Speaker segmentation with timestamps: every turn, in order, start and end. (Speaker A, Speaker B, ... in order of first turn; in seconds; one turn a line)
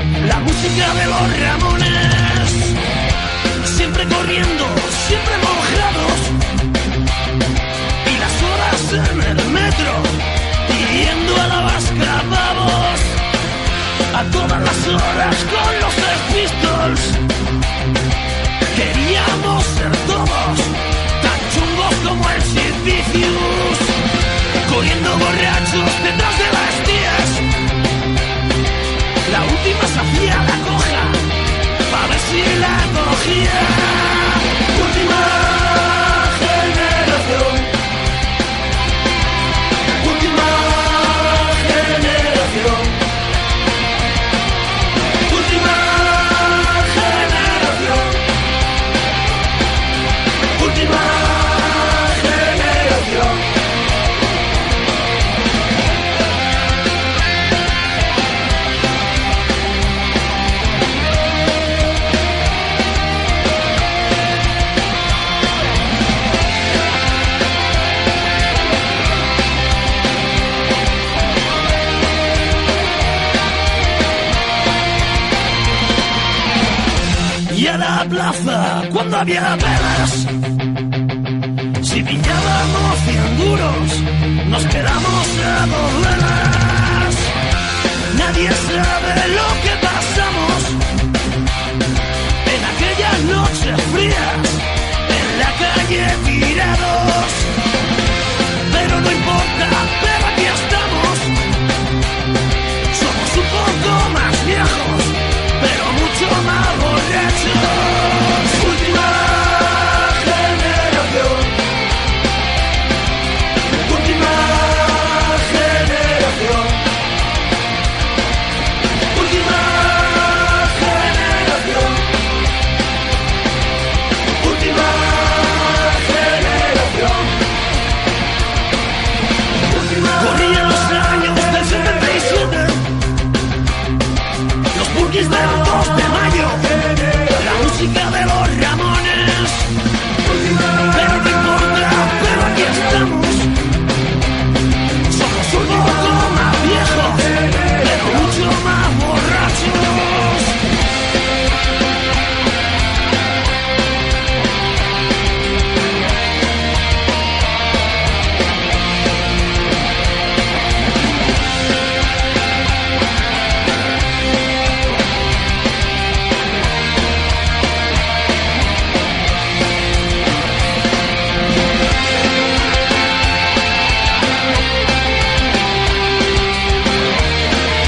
Speaker A: 0.2-2.8
Speaker A: 3.6-6.3
Speaker A: 8.0-13.2
Speaker A: 14.1-17.2
Speaker A: 18.7-24.0
Speaker A: 24.6-27.4
Speaker A: 29.2-31.3
Speaker A: 31.9-37.7
Speaker A: 40.0-43.0
Speaker A: 45.3-48.2
Speaker A: 50.5-53.4
Speaker A: 77.5-80.3
Speaker A: 81.8-87.3
Speaker A: 88.1-90.8
Speaker A: 92.4-97.5
Speaker A: 98.7-101.3
Speaker A: 102.9-111.5
Speaker A: 113.7-116.8
Speaker A: 119.1-122.0
Speaker A: 124.4-127.3
Speaker A: 129.8-132.8
Speaker A: 134.7-139.7
Speaker A: 140.8-143.5
Speaker A: 145.1-150.6